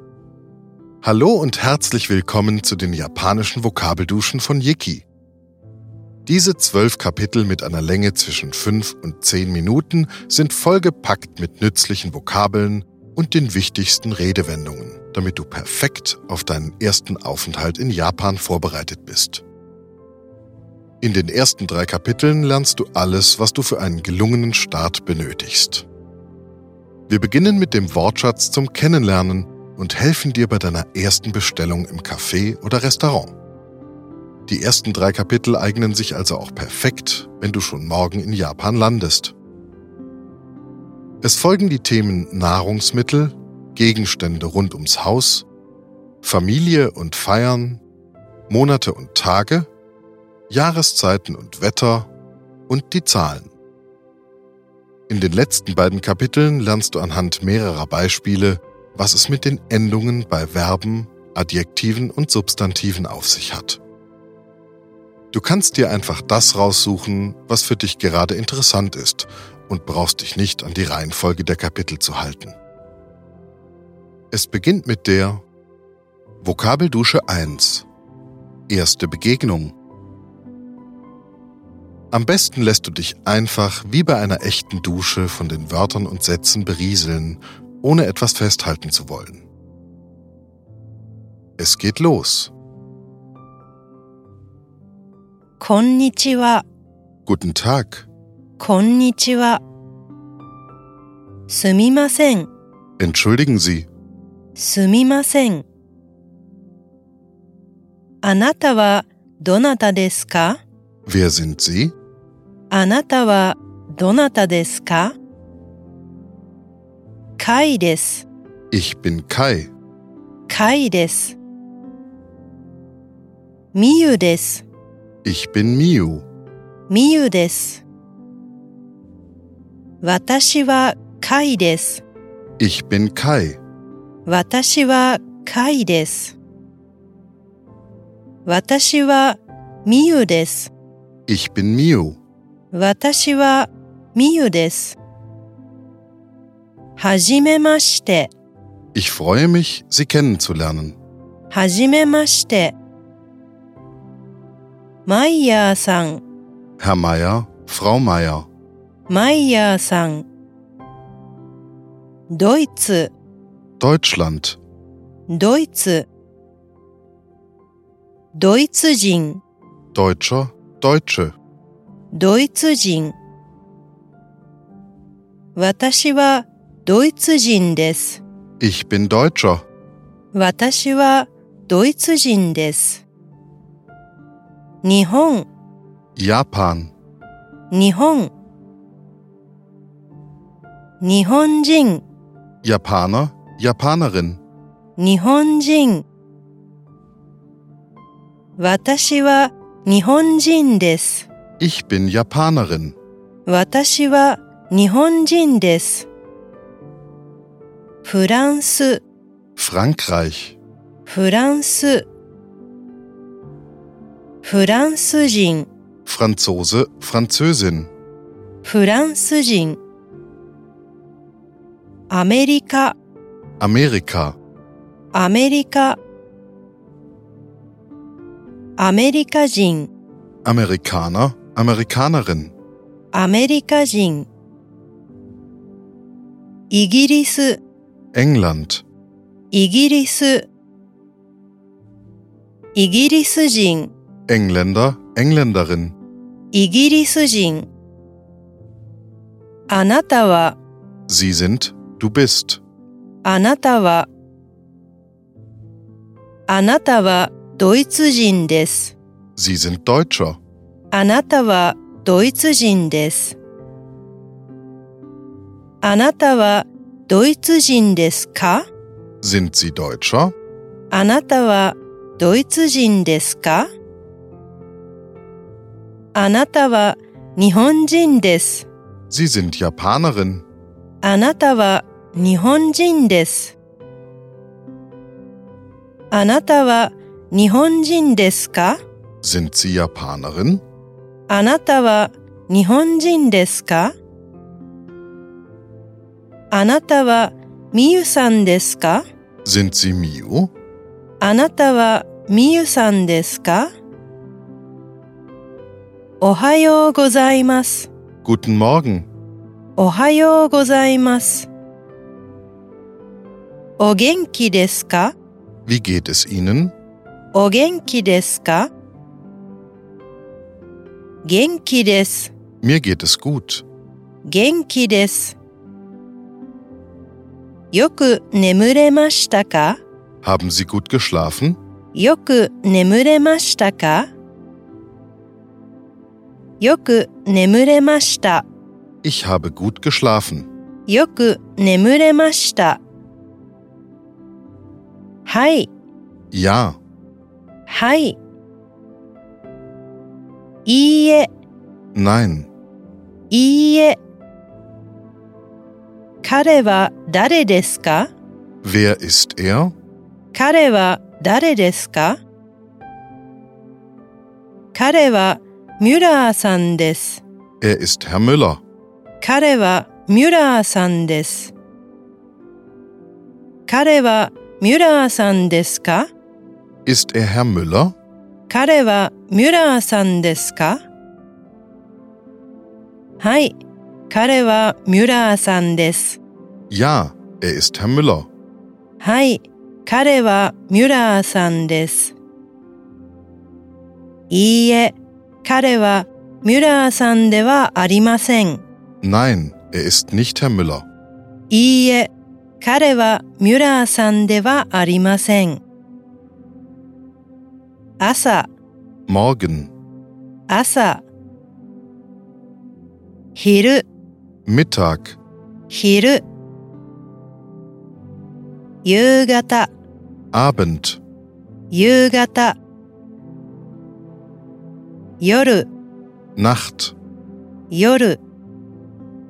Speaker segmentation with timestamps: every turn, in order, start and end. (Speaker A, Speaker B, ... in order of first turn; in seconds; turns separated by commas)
Speaker A: 1.0-5.0, Speaker A: 6.2-19.4, Speaker A: 21.0-25.9, Speaker A: 27.1-33.3, Speaker A: 34.5-39.3, Speaker A: 41.2-45.5, Speaker A: 46.2-47.8, Speaker A: 48.5-49.7, Speaker A: 50.5-52.1, Speaker A: 52.7-53.5, Speaker A: 55.1-63.8, Speaker A: 65.3-72.5, Speaker A: 74.3-75.4, Speaker A: 76.4-77.8, Speaker A: 78.7-79.8, Speaker A: 82.1-89.5, Speaker A: 91.6-92.5, Speaker B: 95.6-96.6, Speaker A: 97.2-98.1, Speaker B: 98.6-99.6, Speaker B: 101.5-102.5, Speaker A: 103.0-103.9, Speaker B: 104.5-105.6, Speaker B: 108.2-110.6, Speaker A: 111.0-111.9, Speaker B: 112.7-115.1, Speaker B: 117.4-118.2, Speaker A: 118.7-119.7, Speaker B: 120.5-121.4, Speaker B: 123.7-124.6, Speaker A: 125.2-126.2, Speaker B: 126.9-127.8, Speaker B: 130.0-132.0, Speaker A: 132.6-133.6, Speaker B: 134.2-136.3, Speaker B: 138.4-140.7, Speaker A: 141.3-142.2, Speaker B: 142.7-145.0, Speaker B: 147.0-148.3, Speaker A: 148.9-151.0, Speaker B: 151.5-152.8, Speaker B: 155.1-156.2, Speaker A: 156.8-158.5, Speaker B: 159.1-160.2, Speaker B: 162.3-163.1, Speaker A: 163.8-164.6, Speaker B: 165.3-166.1, Speaker B: 168.3-169.4, Speaker A: 169.9-171.3, Speaker B: 172.1-173.1, Speaker B: 175.6-178.2, Speaker A: 178.6-179.6, Speaker B: 180.3-183.0, Speaker B: 184.8-185.5, Speaker A: 186.2-186.9, Speaker B: 187.7-188.3, Speaker B: 191.0-192.0, Speaker A: 192.6-194.4, Speaker B: 195.0-196.0, Speaker B: 198.6-201.3, Speaker A: 201.6-202.9, Speaker B: 203.4-206.1, Speaker B: 208.0-209.0, Speaker A: 209.6-210.6, Speaker B: 211.1-212.1, Speaker B: 214.4-215.7, Speaker A: 216.0-217.9, Speaker B: 218.6-219.8, Speaker B: 222.1-222.9, Speaker A: 223.6-224.3, Speaker B: 225.1-226.0, Speaker B: 228.8-229.9, Speaker A: 230.4-232.5, Speaker B: 233.1-234.3, Speaker B: 236.7-237.6, Speaker A: 238.1-238.8, Speaker B: 239.5-240.4, Speaker B: 242.7-243.9, Speaker A: 244.3-245.9, Speaker B: 246.5-247.7, Speaker B: 249.7-250.6, Speaker A: 251.1-252.6, Speaker B: 253.2-254.1, Speaker B: 256.5-258.9, Speaker A: 259.4-260.4, Speaker B: 260.9-263.4, Speaker B: 265.8-268.7, Speaker A: 269.2-270.3, Speaker B: 270.9-273.7, Speaker B: 276.1-278.7, Speaker A: 279.1-280.4, Speaker B: 281.0-283.5, Speaker B: 286.1-288.8, Speaker A: 289.2-290.6, Speaker B: 291.3-293.9, Speaker B: 296.5-299.0, Speaker A: 299.4-300.5, Speaker B: 301.2-303.7, Speaker B: 306.2-307.9, Speaker A: 308.2-309.1, Speaker B: 309.8-311.5, Speaker B: 313.8-315.1, Speaker A: 315.6-316.7, Speaker B: 317.3-318.7, Speaker B: 321.2-322.3, Speaker A: 322.6-323.6, Speaker B: 324.2-325.3, Speaker B: 327.7-329.8, Speaker A: 330.2-331.6, Speaker B: 331.9-334.1, Speaker B: 336.6-338.4, Speaker A: 339.0-340.5, Speaker B: 340.9-342.8, Speaker B: 345.2-345.7, Speaker A: 346.3-346.8, Speaker B: 347.7-348.2, Speaker B: 350.6-351.3, Speaker A: 351.9-352.5, Speaker B: 353.3-354.0, Speaker B: 356.2-358.1, Speaker A: 358.6-359.7, Speaker B: 360.3-362.2, Speaker B: 364.7-367.2, Speaker A: 367.6-368.6, Speaker B: 369.2-371.5, Speaker B: 373.7-376.1, Speaker A: 376.9-377.9, Speaker B: 378.5-380.8, Speaker B: 383.2-383.6, Speaker B: 384.1-386.2, Speaker A: 386.7-388.3, Speaker B: 389.0-392.1, Speaker B: 394.3-398.6, Speaker A: 399.0-400.9, Speaker B: 401.5-405.6, Speaker B: 408.0-408.5, Speaker A: 409.1-409.7, Speaker B: 410.5-411.0, Speaker B: 413.4-413.8, Speaker A: 414.4-415.2, Speaker B: 415.7-416.2, Speaker B: 418.8-419.7, Speaker A: 420.3-421.0, Speaker B: 421.7-422.6, Speaker B: 425.2-425.7, Speaker A: 426.4-426.9, Speaker B: 427.7-428.2